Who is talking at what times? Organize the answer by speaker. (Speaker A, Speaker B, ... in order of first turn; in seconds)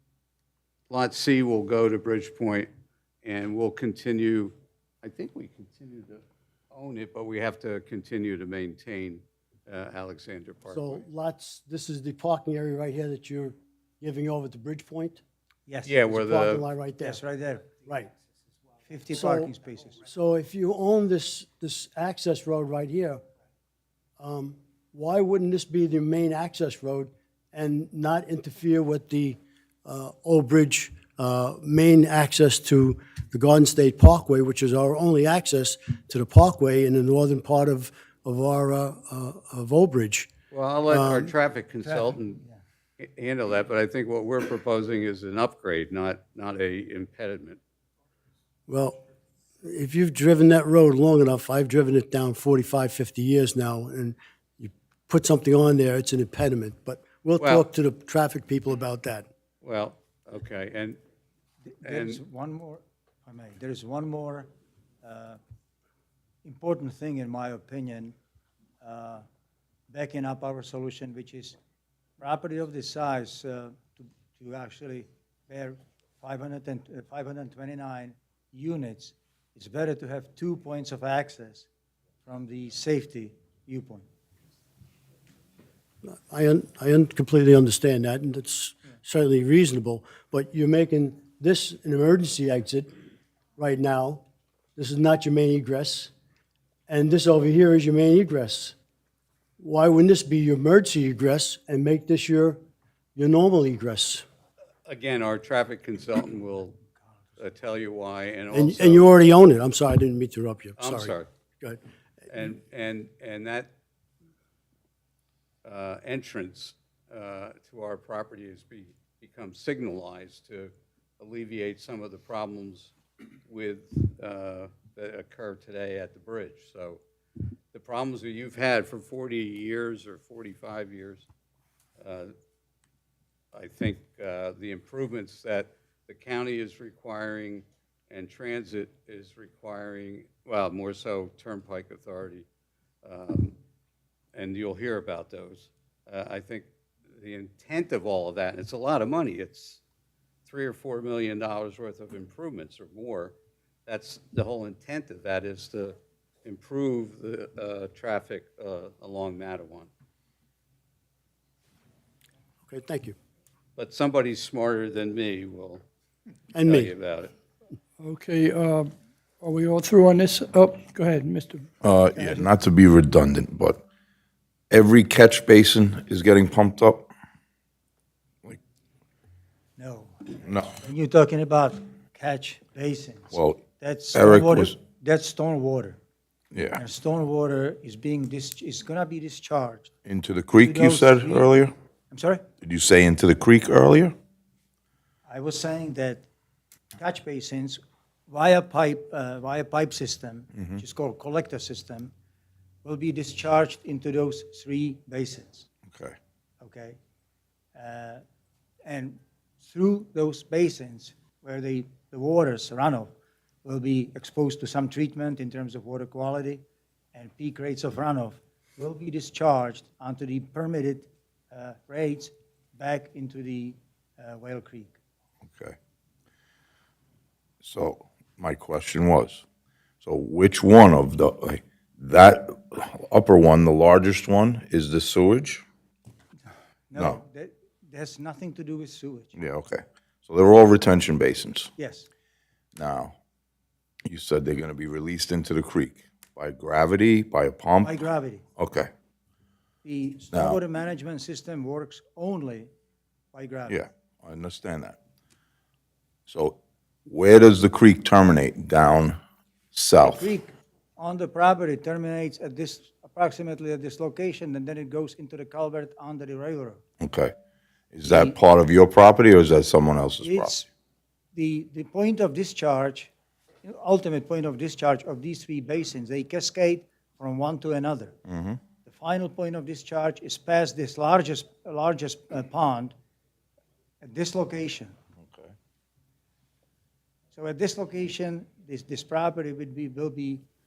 Speaker A: 0.9-2.7, 3.2-11.0, 15.8-16.6, 40.5-42.4, 43.0-47.6, 57.4-57.6, 59.6-61.0, 61.8-62.2, 104.8-106.8, 107.4-109.1, 110.8-111.3, 112.3-113.7, 115.6-122.9, 123.5-127.0, 127.7-131.2, 132.0-132.3, 133.5-142.4, 143.0-143.6, 144.3-149.8, 150.4-153.3, 153.8-159.9, 163.8-165.8, 166.6-167.3
Speaker B: 10.7-15.2, 16.2-17.2, 17.8-18.1, 19.1-19.5, 20.0-23.2, 24.2-40.3, 40.9-41.3, 48.7-49.0, 49.6-59.2, 86.0-92.9, 93.6-94.2, 94.8-96.1, 96.9-98.8, 99.6-102.6, 103.2-104.2, 108.5-111.8, 162.7-163.1, 166.5-166.9
Speaker C: 15.7-16.3, 17.0-17.8, 18.9-20.0, 41.8-42.6, 61.8-64.5, 65.0-65.4, 66.4-68.1, 68.8-69.2, 69.9-71.5, 72.2-81.7, 82.2-84.0, 172.2-172.5, 179.8-186.0, 186.7-189.9, 190.6-191.5, 192.1-192.4, 195.3-196.2, 197.0-202.1, 202.8-205.7, 206.6-207.0, 207.7-208.2, 208.8-213.1, 213.6-216.6, 217.1-224.9, 236.9-239.3, 241.8-242.1, 247.8-248.4, 249.8-252.7, 253.3-253.8, 260.0-266.8, 268.0-268.4, 270.2-270.7, 271.3-273.1, 273.6-278.1, 278.8-282.9, 284.0-284.9, 287.3-290.4
Speaker D: 168.0-171.7
Speaker E: 171.8-173.8, 174.7-177.1, 180.4-180.7, 183.3-183.6, 184.1-184.7, 186.5-186.8, 190.1-191.7, 192.6-194.1, 205.9-206.2, 225.5-225.8, 227.6-229.4, 230.0-235.6, 239.3-241.7, 242.8-243.2, 244.1-248.0, 248.6-248.9, 250.3-250.6, 253.7-255.0, 256.3-259.2, 259.7-260.3, 267.0-267.3, 267.9-270.6, 278.2-278.6, 285.2-285.5